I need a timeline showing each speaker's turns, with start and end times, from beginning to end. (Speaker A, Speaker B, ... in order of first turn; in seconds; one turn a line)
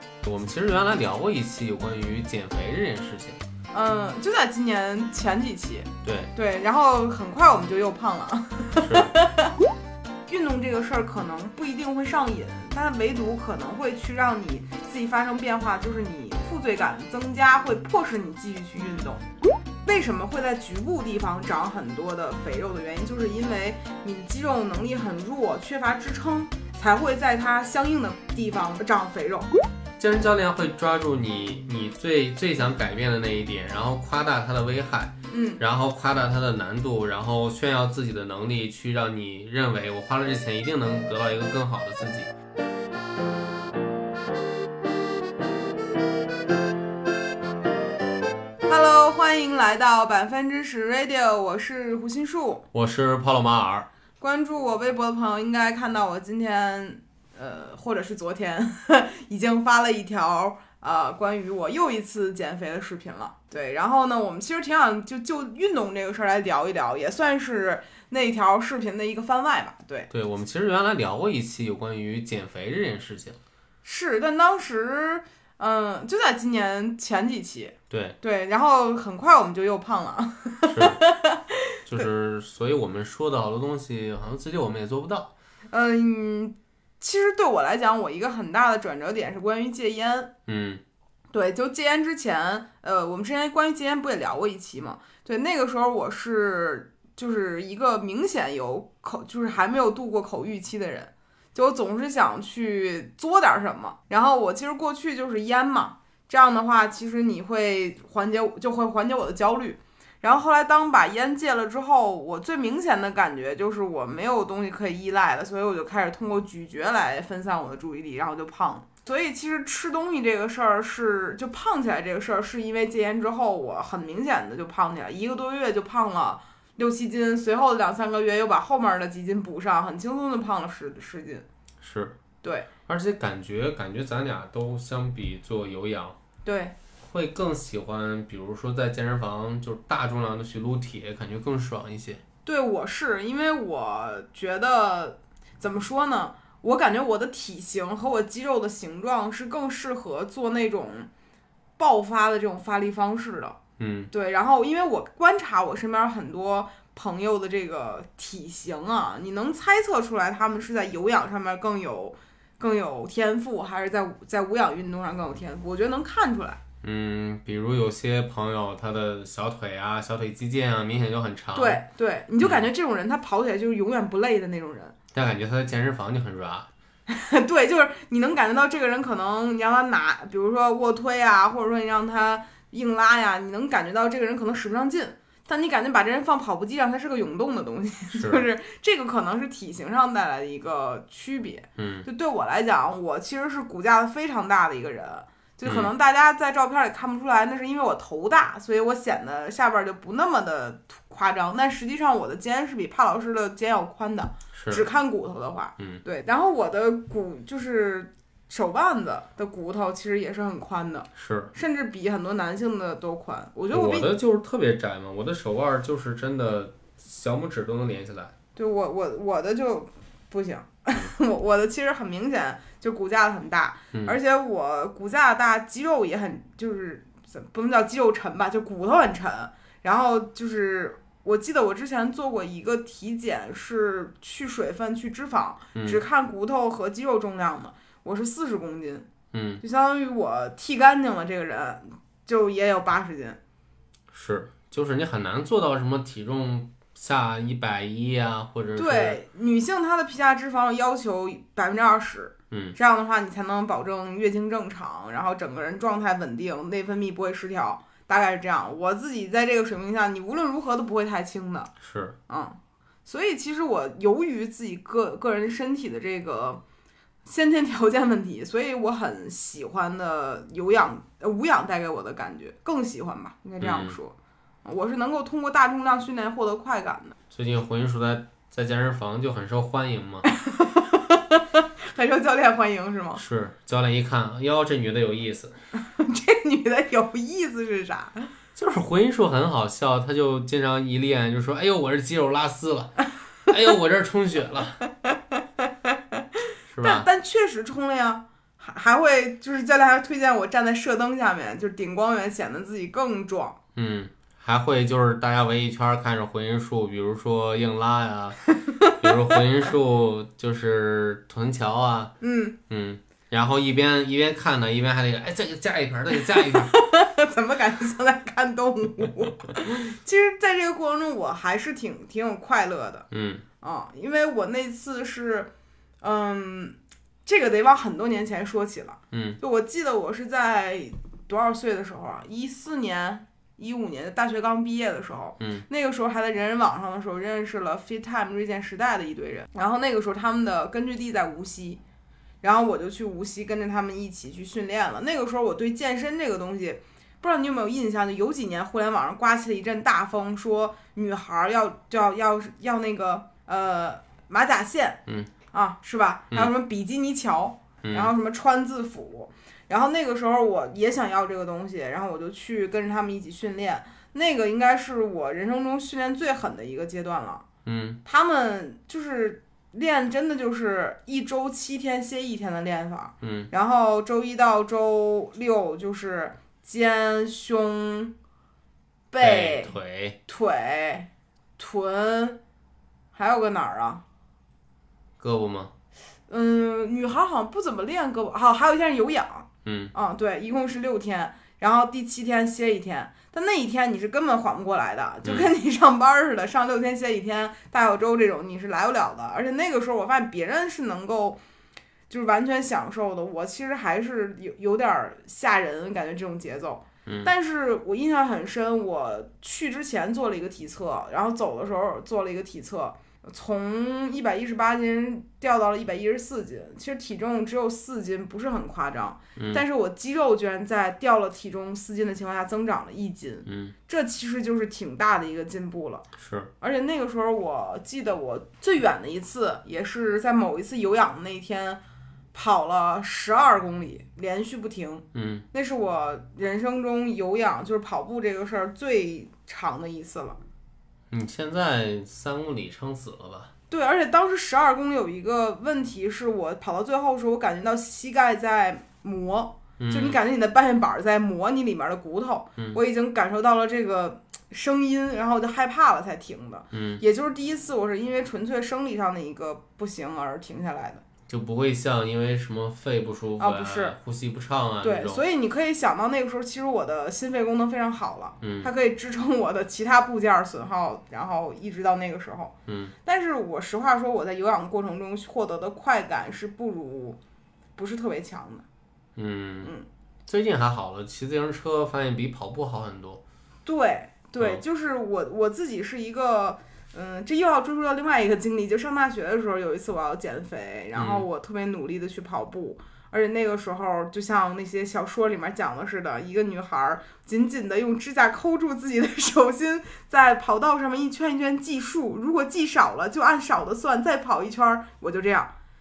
Speaker A: 0.2-3.4
Speaker B: 3.7-9.6
Speaker A: 6.0-6.3
Speaker A: 8.8-9.1
Speaker B: 10.3-19.2
Speaker B: 19.9-29.5
Speaker A: 30.0-42.3
Speaker B: 35.3-35.6
Speaker B: 48.7-52.7
Speaker A: 52.7-53.9
Speaker B: 54.2-70.1
Speaker A: 70.1-73.4
Speaker B: 73.8-82.1
Speaker A: 77.9-78.2
Speaker A: 80.7-81.0
Speaker A: 81.9-85.3
Speaker B: 85.7-90.3
Speaker A: 90.5-90.8
Speaker B: 91.3-131.4
Speaker A: 131.8-132.2
Speaker B: 132.4-132.7
Speaker A: 132.9-136.2
Speaker B: 136.4-136.8
Speaker A: 137.0-142.2
Speaker B: 142.4-151.1
Speaker B: 151.8-153.6
Speaker A: 153.8-154.1
Speaker B: 154.1-166.6
Speaker A: 166.8-171.8
Speaker B: 171.6-175.0
Speaker A: 172.4-172.7
Speaker A: 175.1-176.7
Speaker B: 177.1-214.1
Speaker A: 188.1-188.4
Speaker A: 191.8-192.1
Speaker A: 195.7-195.9
Speaker A: 204.5-204.8
Speaker A: 211.2-211.5
Speaker A: 213.7-218.3
Speaker B: 218.6-239.1
Speaker A: 235.8-236.0
Speaker A: 239.3-239.6
Speaker B: 239.6-243.4
Speaker A: 244.1-249.2
Speaker B: 248.8-261.7
Speaker A: 252.5-252.8
Speaker A: 261.8-262.2
Speaker B: 262.3-266.6
Speaker B: 267.2-277.2
Speaker A: 273.6-274.0
Speaker A: 277.3-280.3
Speaker B: 280.2-283.2
Speaker A: 283.2-285.6
Speaker B: 285.8-288.3
Speaker A: 288.6-294.8
Speaker B: 295.1-296.2
Speaker A: 296.7-297.1
Speaker B: 296.8-303.6
Speaker A: 303.8-312.1
Speaker B: 308.7-309.1
Speaker B: 312.2-312.6
Speaker A: 312.7-316.7
Speaker B: 316.1-323.1
Speaker A: 323.1-323.4
Speaker B: 323.6-341.8
Speaker A: 329.1-329.4
Speaker A: 335.4-335.7
Speaker B: 342.4-367.4
Speaker A: 357.8-358.1
Speaker A: 367.6-368.0
Speaker B: 368.1-378.1
Speaker A: 373.2-373.5
Speaker B: 379.1-379.7
Speaker A: 379.2-380.2
Speaker B: 380.3-382.4
Speaker B: 383.1-384.0
Speaker A: 385.2-385.7
Speaker B: 386.3-401.4
Speaker A: 389.6-389.9
Speaker A: 395.2-395.5
Speaker B: 402.1-426.1
Speaker A: 407.1-407.3
Speaker A: 419.4-419.6
Speaker A: 423.5-423.7
Speaker A: 426.2-426.5
Speaker B: 426.6-431.8
Speaker B: 432.3-440.4
Speaker A: 435.1-435.4
Speaker A: 441.1-443.5
Speaker B: 443.7-461.0
Speaker A: 449.8-450.2
Speaker A: 456.7-457.0
Speaker A: 461.3-465.2
Speaker B: 463.4-464.0
Speaker B: 464.8-472.5
Speaker A: 468.4-468.7
Speaker A: 472.7-472.9
Speaker B: 473.1-477.2
Speaker B: 477.8-478.6
Speaker A: 479.2-479.7
Speaker A: 480.3-483.2
Speaker B: 483.7-505.5
Speaker A: 490.9-491.3